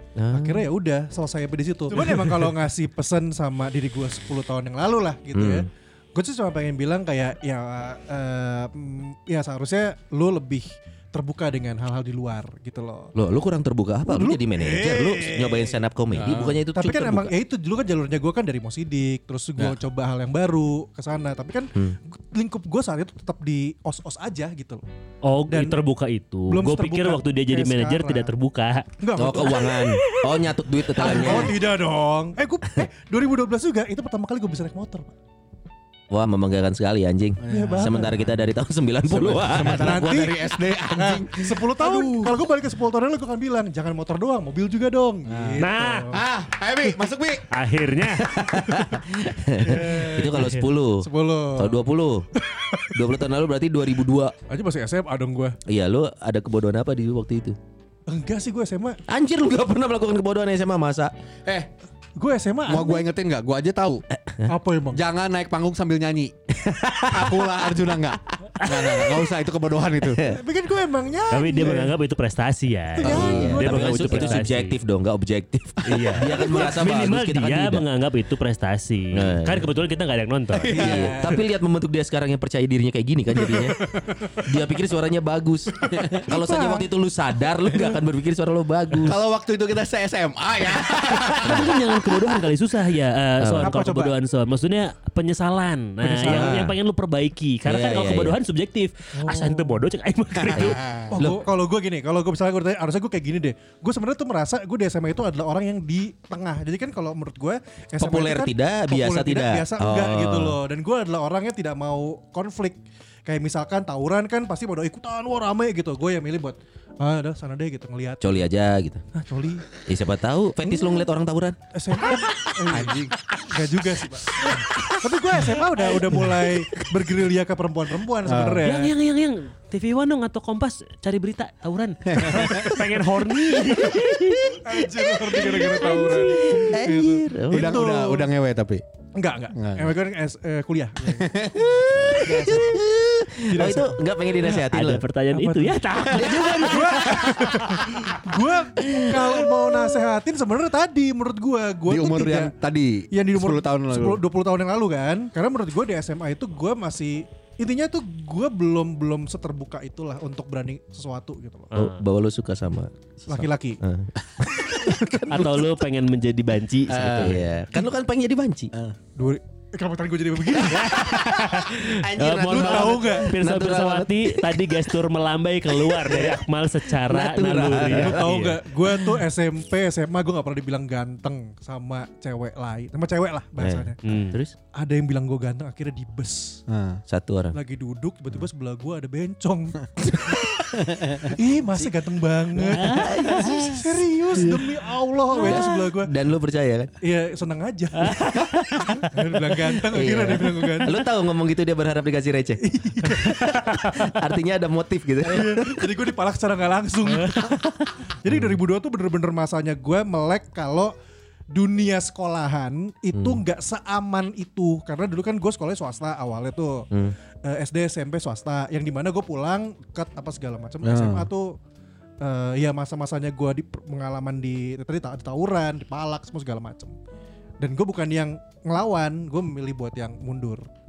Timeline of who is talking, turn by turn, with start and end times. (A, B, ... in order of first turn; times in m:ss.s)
0:00.2-0:00.7 A
0:00.3-0:13.1 B
0:05.3-0:05.7 A
0:13.1-0:17.3 A
0:14.1-0:15.8 B
0:16.1-0:16.6 C
0:16.7-0:24.8 B
0:25.2-0:29.8 D
0:25.5-0:25.8 B
0:26.5-0:28.3 B
0:29.0-0:30.0 B
0:29.2-0:31.6 A
0:31.0-0:35.1 B
0:36.1-0:40.2 A
0:37.4-0:38.5 C
0:37.5-0:38.2 B
0:39.0-0:42.4 C
0:39.5-0:46.2 B
0:45.2-0:48.9 C
0:45.6-0:46.1 D
0:47.5-0:48.3 D
0:48.3-0:52.2 A
0:49.6-0:51.8 B
0:52.3-0:53.1 B
0:52.9-0:54.3 A
0:54.5-0:55.6 B
0:55.6-0:57.6 A
0:58.1-0:59.0 B
0:59.1-1:01.1 A
1:02.2-1:03.0 B
1:02.7-1:04.0 C
1:04.1-1:04.5 A
1:04.4-1:05.0 B
1:04.9-1:06.3 C
1:06.6-1:07.5 A
1:07.1-1:10.3 C
1:10.0-1:10.4 A
1:10.2-1:11.9 B
1:11.3-1:14.7 D
1:13.0-1:14.4 B
1:13.0-1:13.5 C
1:13.0-1:17.8 A
1:15.8-1:21.0 D
1:19.1-1:19.7 A
1:20.5-1:21.2 C
1:20.7-1:21.4 B
1:20.7-1:29.2 A
1:25.8-1:26.9 B
1:29.0-1:32.2 C
1:31.1-1:41.0 D
1:31.4-1:31.7 A
1:33.4-1:33.7 A
1:33.6-1:34.1 B
1:36.0-1:36.8 A
1:36.2-1:36.5 B
1:37.6-1:38.4 A
1:39.2-1:39.8 B
1:40.4-1:41.1 C
1:40.6-1:41.5 A
1:41.1-1:58.4 B
1:48.0-1:50.6 A
1:58.2-1:59.0 A
1:59.1-1:59.7 B
1:59.8-2:01.6 A
2:00.6-2:01.0 B
2:01.7-2:08.9 B
2:02.6-2:03.2 C
2:08.2-2:08.6 C
2:08.6-2:14.6 D
2:12.1-2:12.8 C
2:12.2-2:12.7 B
2:13.6-2:14.7 A
2:14.6-2:18.3 B
2:15.3-2:17.8 A
2:15.4-2:16.7 D
2:15.4-2:16.1 C
2:17.5-2:18.8 C
2:19.1-2:21.3 B
2:19.5-2:19.9 C
2:21.0-2:22.6 C
2:21.6-2:25.0 A
2:22.2-2:22.8 B
2:23.4-2:24.0 B
2:24.4-2:27.5 D
2:25.3-2:32.5 B
2:26.0-2:27.8 A
2:28.8-2:29.7 A
2:31.9-2:34.2 C
2:33.1-2:41.7 B
2:41.7-2:42.0 D
2:41.7-2:45.7 A
2:43.3-2:43.8 B
2:44.9-2:45.2 B
2:45.3-2:47.5 D
2:46.9-2:47.5 C
2:47.0-2:48.7 A
2:49.2-2:51.1 B
2:50.7-2:58.6 D
2:50.7-2:54.9 A
2:52.4-2:53.3 B
2:55.7-2:56.4 A
2:56.9-2:58.5 A
2:57.7-3:04.0 B
3:03.6-3:04.5 A
3:04.0-3:04.4 D
3:04.7-3:06.6 B
3:06.7-3:07.0 C
3:07.1-3:07.6 A
3:07.5-3:10.5 B
3:10.1-3:11.3 A
3:11.3-3:16.1 B
3:12.6-3:14.7 A
3:12.7-3:13.7 D
3:15.4-3:16.9 A
3:17.0-3:18.2 B
3:18.0-3:19.1 D
3:18.9-3:21.0 B
3:19.8-3:25.9 A
3:22.6-3:23.9 B
3:25.2-3:30.9 B
3:28.3-3:28.5 A
3:31.5-3:36.9 B
3:33.1-3:33.4 A
3:37.4-3:41.6 B
3:40.8-3:41.3 C
3:42.2-3:46.9 B
3:47.6-3:50.6 B